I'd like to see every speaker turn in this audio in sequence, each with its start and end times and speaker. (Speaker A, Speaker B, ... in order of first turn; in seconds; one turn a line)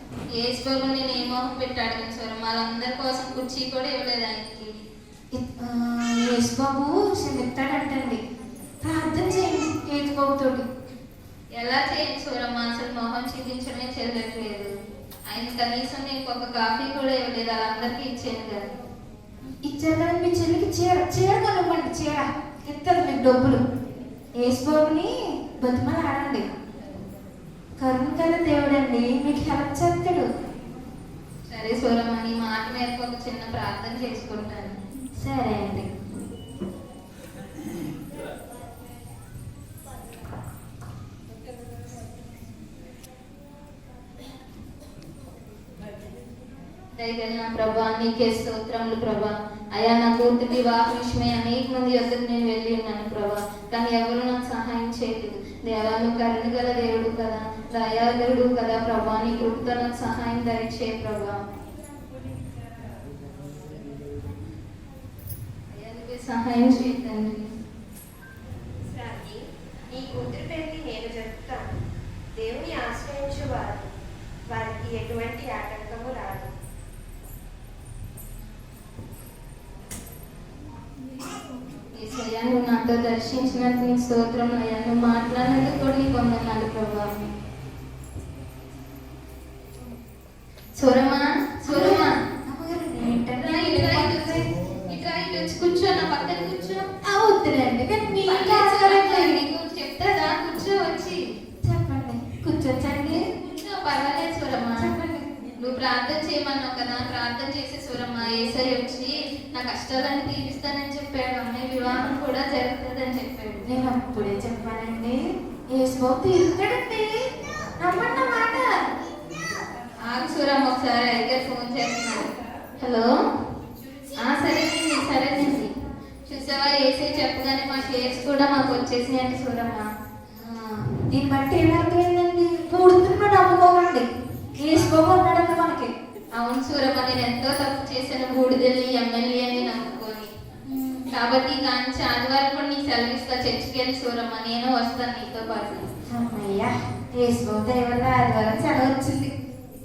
Speaker A: 0.4-4.7
Speaker B: 5.3-8.2
Speaker B: 8.8-10.7
Speaker A: 11.6-14.7
Speaker A: 15.3-18.6
Speaker B: 19.7-23.6
Speaker B: 24.4-26.4
Speaker B: 27.8-30.3
Speaker A: 31.5-34.8
Speaker B: 35.2-35.9
Speaker A: 47.0-61.4
Speaker A: 65.7-67.5
Speaker C: 68.9-69.4
Speaker C: 69.9-71.7
Speaker C: 72.4-73.8
Speaker C: 74.5-76.5
Speaker A: 82.0-87.1
Speaker A: 90.8-92.1
Speaker B: 91.6-94.4
Speaker A: 93.4-94.4
Speaker A: 94.9-96.9
Speaker B: 97.0-99.4
Speaker A: 98.3-101.2
Speaker B: 101.7-103.2
Speaker A: 103.3-104.9
Speaker B: 104.8-105.3
Speaker A: 105.6-113.7
Speaker B: 113.7-115.2
Speaker B: 115.7-117.1
Speaker B: 117.8-118.7
Speaker A: 120.1-122.3
Speaker A: 122.8-123.1
Speaker A: 124.2-125.7
Speaker A: 126.3-129.9
Speaker B: 130.4-134.1
Speaker B: 134.6-135.9
Speaker A: 136.4-140.3
Speaker B: 140.7-141.1
Speaker A: 141.1-145.9
Speaker B: 146.1-149.3